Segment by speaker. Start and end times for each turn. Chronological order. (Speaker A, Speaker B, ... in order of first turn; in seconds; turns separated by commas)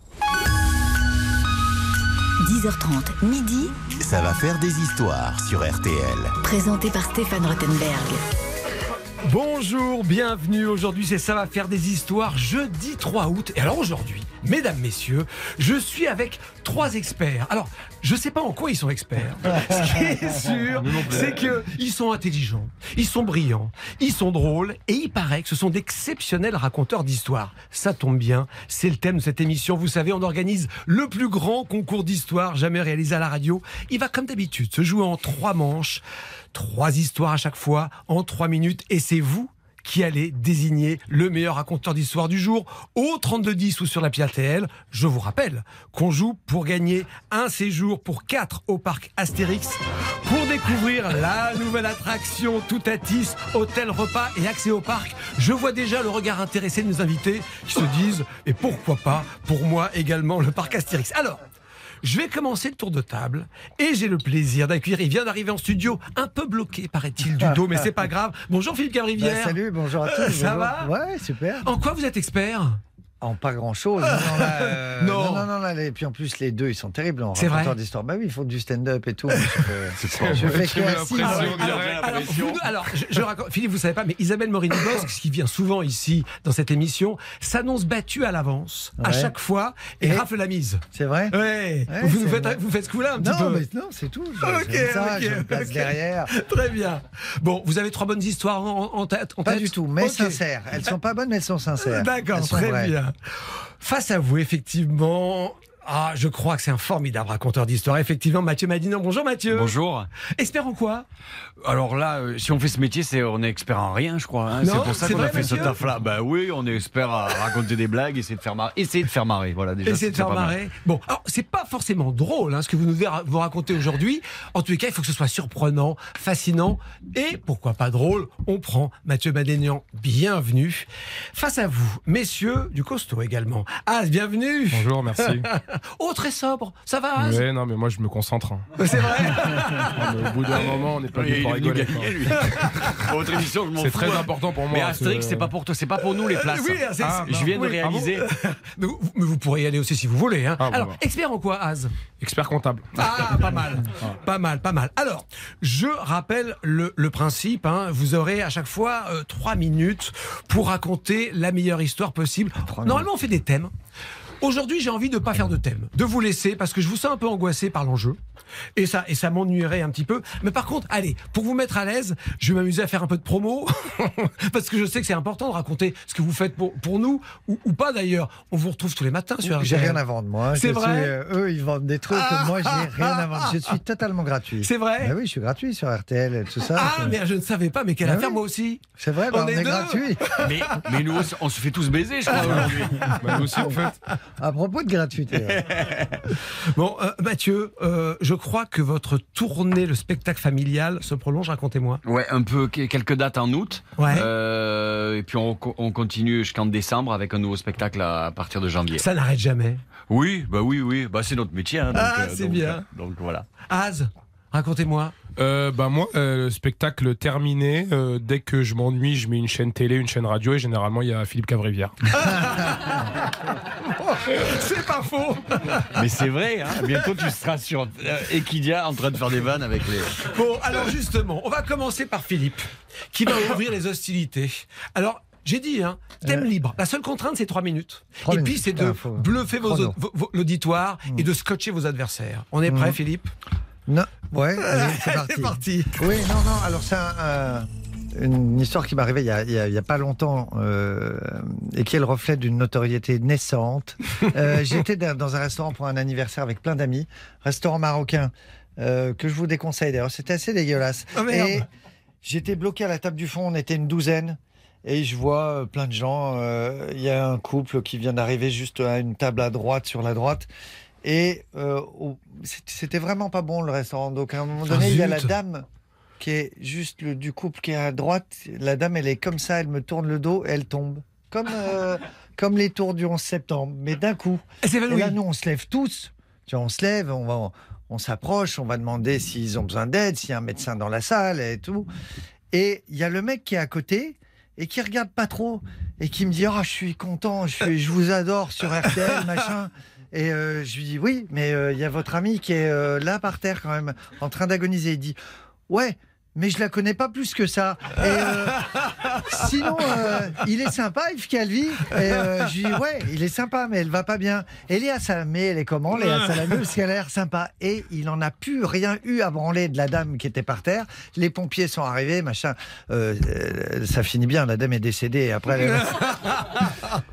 Speaker A: 2.4-3.7, Speaker B: 4.0-6.4, Speaker A: 6.4-8.2, Speaker C: 9.2-36.0, Speaker D: 20.7-21.5, Speaker C: 36.5-61.4, Speaker C: 62.0-70.9, Speaker E: 67.4-67.8, Speaker E: 69.2-71.7, Speaker C: 71.6-72.8, Speaker E: 73.2-81.6, Speaker C: 74.1-75.5, Speaker C: 77.4-77.8, Speaker F: 80.0-82.7, Speaker D: 80.2-82.1, Speaker C: 81.2-93.6, Speaker E: 89.0-89.3, Speaker E: 90.0-90.3, Speaker E: 90.9-92.6, Speaker E: 93.2-96.3, Speaker C: 94.4-100.4, Speaker E: 99.4-102.9, Speaker C: 101.8-109.8, Speaker F: 109.5-110.1, Speaker C: 110.3-111.1, Speaker F: 111.6-120.5, Speaker C: 114.6-115.8, Speaker C: 119.9-137.4, Speaker D: 134.7-135.5, Speaker D: 137.2-138.8, Speaker C: 138.8-140.0, Speaker D: 139.4-142.5, Speaker F: 140.5-148.3, Speaker D: 143.8-145.5, Speaker C: 146.4-151.9, Speaker D: 147.0-148.1, Speaker D: 150.6-151.0, Speaker D: 152.2-153.5, Speaker C: 153.0-163.7, Speaker E: 162.7-163.1, Speaker C: 164.4-168.2, Speaker C: 168.8-180.0, Speaker E: 179.4-187.2, Speaker C: 180.6-181.1, Speaker C: 182.1-183.5, Speaker C: 184.6-185.2, Speaker C: 186.7-190.8, Speaker E: 188.0-188.4, Speaker E: 189.0-190.3, Speaker F: 190.4-193.1, Speaker C: 192.4-193.7, Speaker D: 193.2-194.0, Speaker E: 194.4-195.6, Speaker C: 196.3-202.0, Speaker F: 202.0-209.0, Speaker C: 204.0-204.3, Speaker C: 209.0-209.8, Speaker F: 210.1-213.5, Speaker C: 211.9-212.8, Speaker C: 213.7-215.1, Speaker D: 215.4-222.4, Speaker C: 222.2-223.2, Speaker C: 223.8-226.0, Speaker F: 225.9-230.2, Speaker C: 230.2-243.3, Speaker E: 238.2-240.0, Speaker E: 242.7-243.0, Speaker E: 243.9-261.7, Speaker C: 244.6-246.0, Speaker C: 261.1-261.6, Speaker E: 262.2-270.5, Speaker E: 271.0-275.7, Speaker C: 274.7-275.3, Speaker E: 276.2-291.9, Speaker C: 284.6-285.2, Speaker E: 292.5-305.2, Speaker E: 305.7-326.1, Speaker C: 308.8-309.2, Speaker C: 316.0-316.4, Speaker C: 325.7-326.8